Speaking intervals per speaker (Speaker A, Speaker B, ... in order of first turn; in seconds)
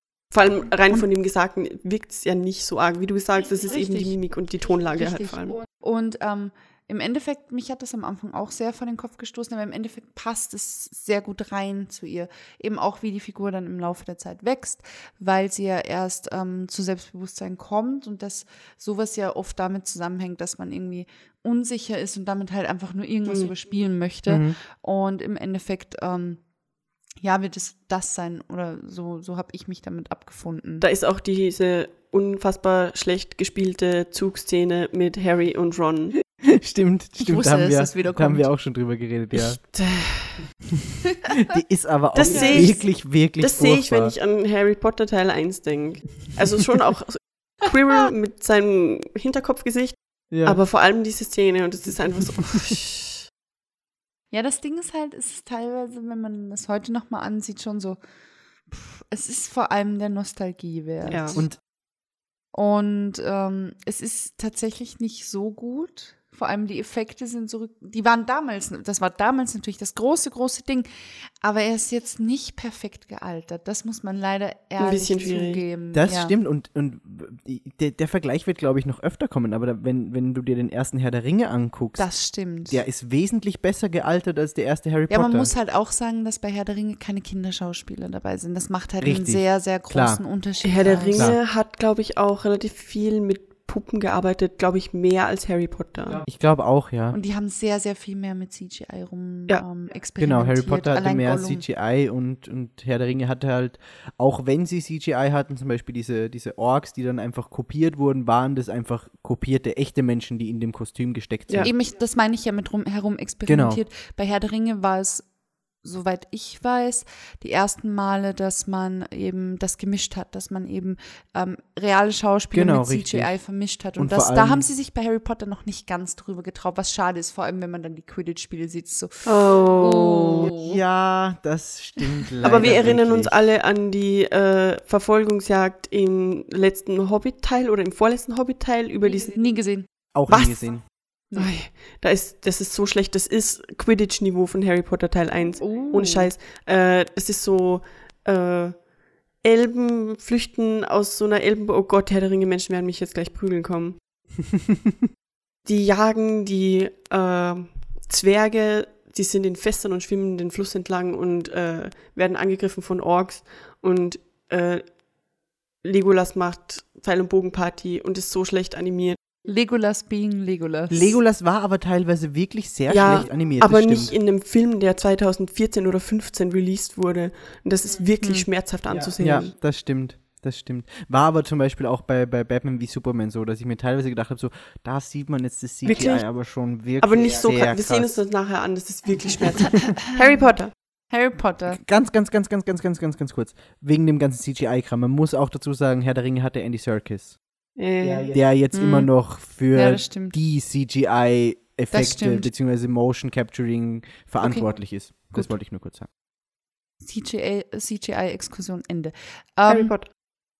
Speaker A: 0.3-5.6, 30.8-36.2, 39.3-40.5, 42.1-53.2, 61.1-61.4, 74.8-75.6, 90.6-96.2, 129.2-130.5, 132.4-139.4, 141.3-148.8, 149.4-154.0, 155.7-165.0, 165.8-169.2, 172.9-179.5, 185.8-190.7, 197.8-198.3, 209.7-210.1
Speaker B: 3.8-4.2, 5.0-26.4, 27.2-30.8, 37.2-38.5, 42.2-42.8, 54.3-58.0, 58.7-61.5, 62.5-70.9, 71.4-76.3, 82.0-82.8, 85.1-91.3, 97.1-101.6, 111.6-115.3, 115.8-130.8, 139.1-141.6, 145.6-146.3, 169.4-171.2, 178.2-178.5, 189.6-190.5, 191.1-191.8, 198.7-200.3, 201.9-202.5, 204.4-205.5, 207.0-210.2
Speaker C: 24.3-24.6, 36.4-39.6, 41.4-44.1, 50.3-50.6, 75.9-85.5, 89.0-90.2, 91.1-91.4, 96.2-97.2, 100.2-111.7, 113.5-113.8, 122.5-123.3, 124.0-124.7, 130.4-133.3, 140.1-140.8, 170.9-174.1, 179.1-188.2, 191.7-197.4, 198.2-206.1